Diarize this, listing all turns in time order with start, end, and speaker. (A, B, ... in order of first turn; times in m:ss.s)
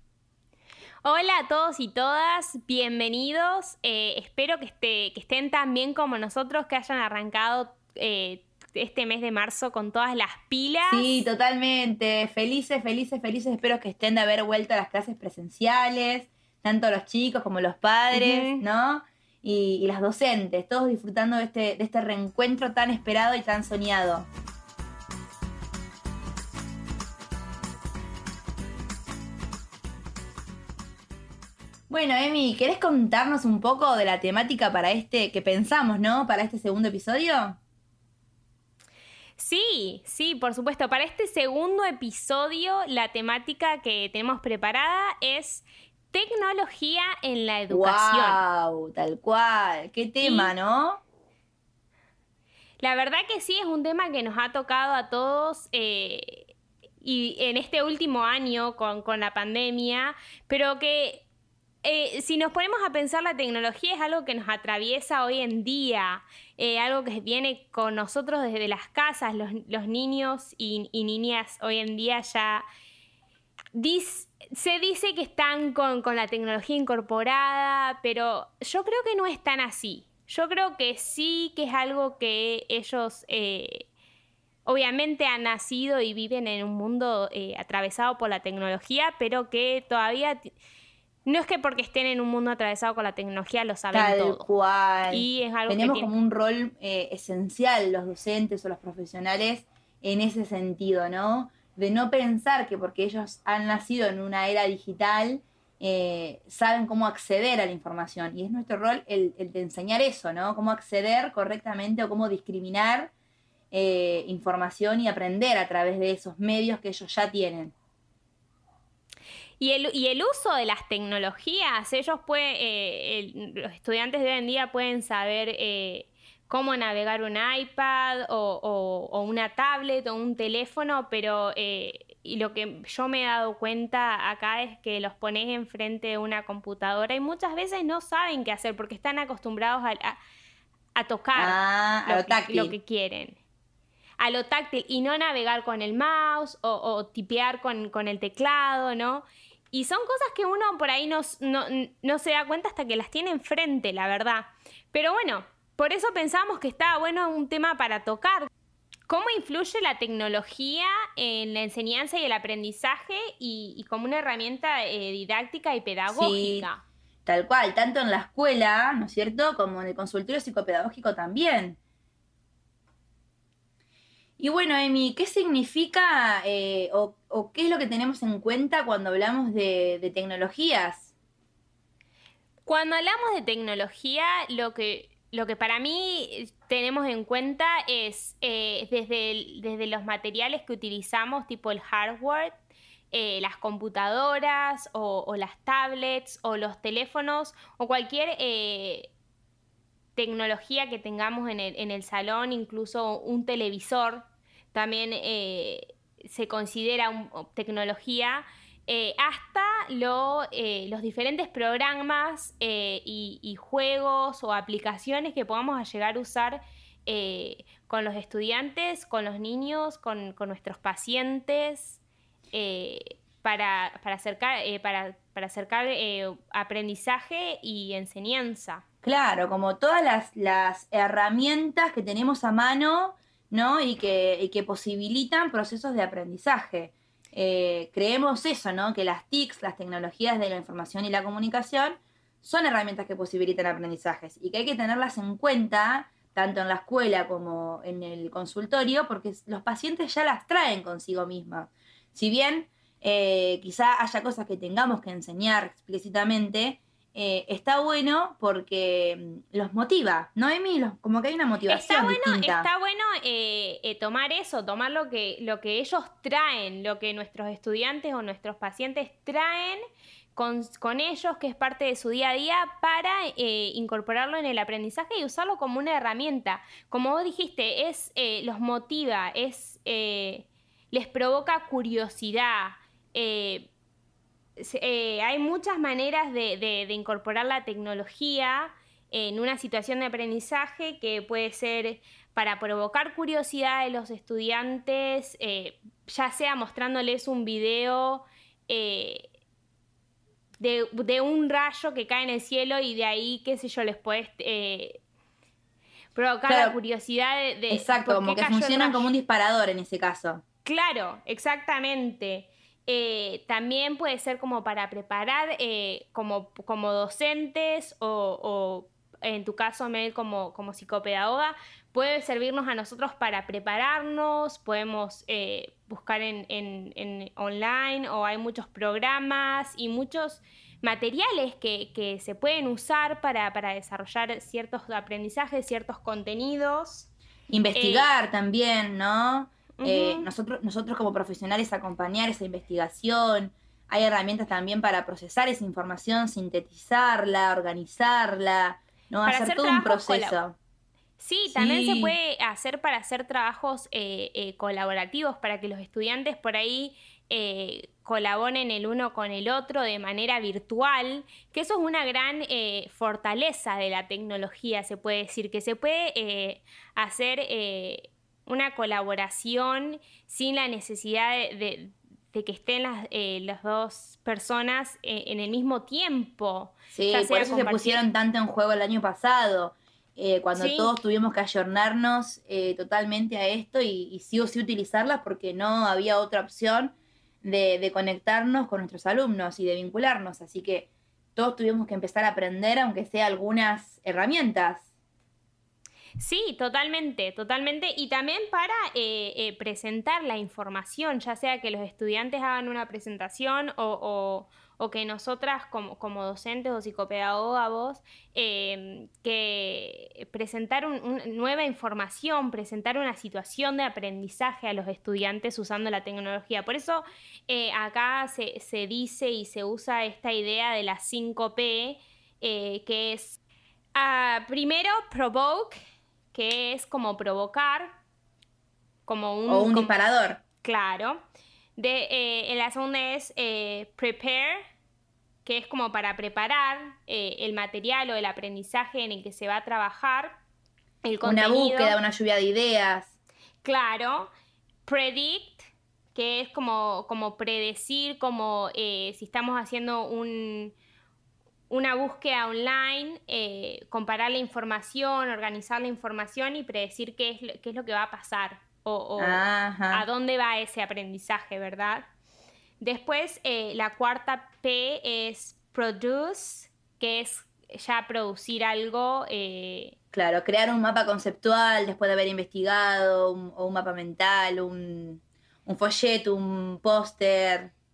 0:01.0-0:11.3 A
0:10.9-0:24.3 B
0:18.1-0:18.6 A
0:31.9-0:37.6 B
0:39.4-0:48.4 A
0:47.7-0:51.0 B
0:50.2-0:50.5 A
0:52.8-0:56.5 A
0:57.0-1:01.2 A
1:01.8-1:12.6 A
1:13.7-1:23.9 A
1:24.7-1:30.5 A
1:31.3-1:34.5 A
1:33.9-1:53.1 B
1:35.1-1:36.1 A
1:53.7-1:57.7 B
1:59.6-2:20.2 A
2:21.0-2:23.4 A
2:21.4-2:22.7 B
2:24.2-2:38.5 A
2:39.1-2:46.8 A
2:46.1-2:46.7 B
2:47.3-2:51.8 B
2:54.4-3:01.1 B
3:02.7-3:12.5 A
3:13.1-3:19.1 A
3:20.2-3:42.0 A
3:42.5-3:48.8 A
3:49.0-4:22.7 B
4:21.7-4:29.8 A
4:30.4-4:43.7 A
4:44.6-4:59.3 A
5:00.6-5:05.0 A
5:06.2-5:09.1 A
5:06.5-5:06.8 B
5:07.7-5:10.4 B
5:10.6-5:37.1 A
5:37.5-5:50.6 B
5:37.8-5:38.1 A
5:39.8-5:40.3 A
5:49.2-5:50.4 A
5:51.2-6:18.0 A
5:51.5-5:52.2 B
6:16.9-6:34.9 B
6:20.6-6:20.9 A
6:36.2-7:03.4 A
7:04.0-7:05.8 A
7:06.3-7:08.0 A
7:09.1-7:10.0 A
7:09.5-7:10.4 B
7:10.6-7:11.2 A
7:11.8-7:14.6 A
7:15.4-7:20.4 A
7:21.0-7:22.0 A
7:21.2-7:23.2 B
7:23.6-7:24.3 A
7:24.9-7:30.7 A
7:31.7-7:42.0 A
7:39.2-7:40.0 B
7:42.8-7:50.0 A
7:50.1-7:57.7 B